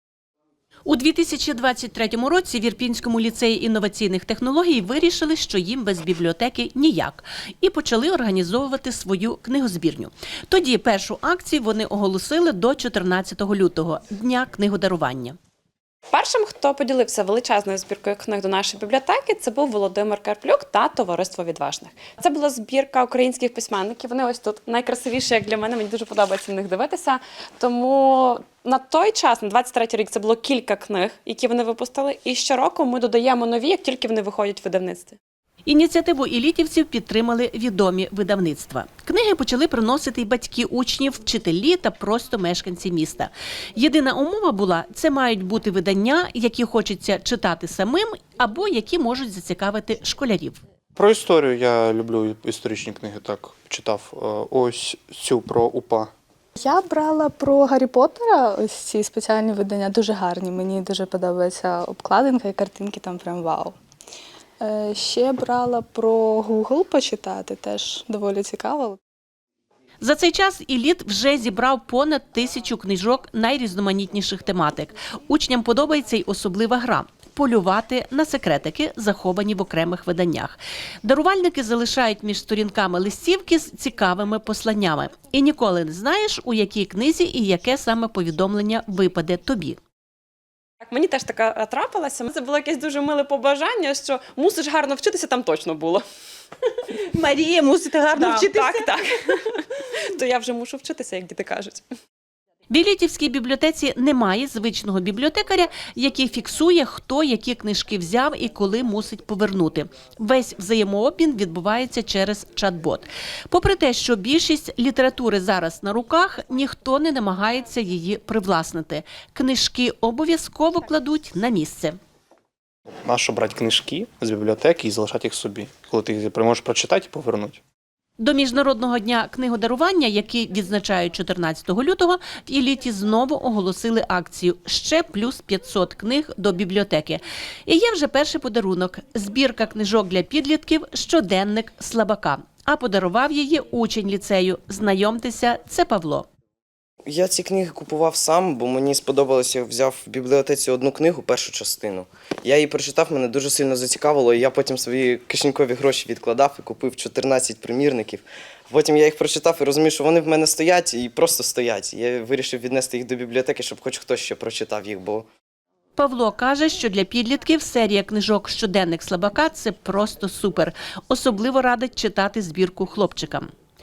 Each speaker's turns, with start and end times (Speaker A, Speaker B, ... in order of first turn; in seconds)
Speaker A: 0.9-15.4, 35.6-50.6, 70.0-89.8, 96.9-98.9, 102.7-122.0, 128.2-146.3, 166.0-173.5
Speaker B: 16.1-35.2, 90.8-96.0, 98.1-101.8
Speaker C: 51.0-56.1, 123.0-127.6
Speaker D: 56.6-63.8, 64.6-69.0
Speaker E: 147.1-165.3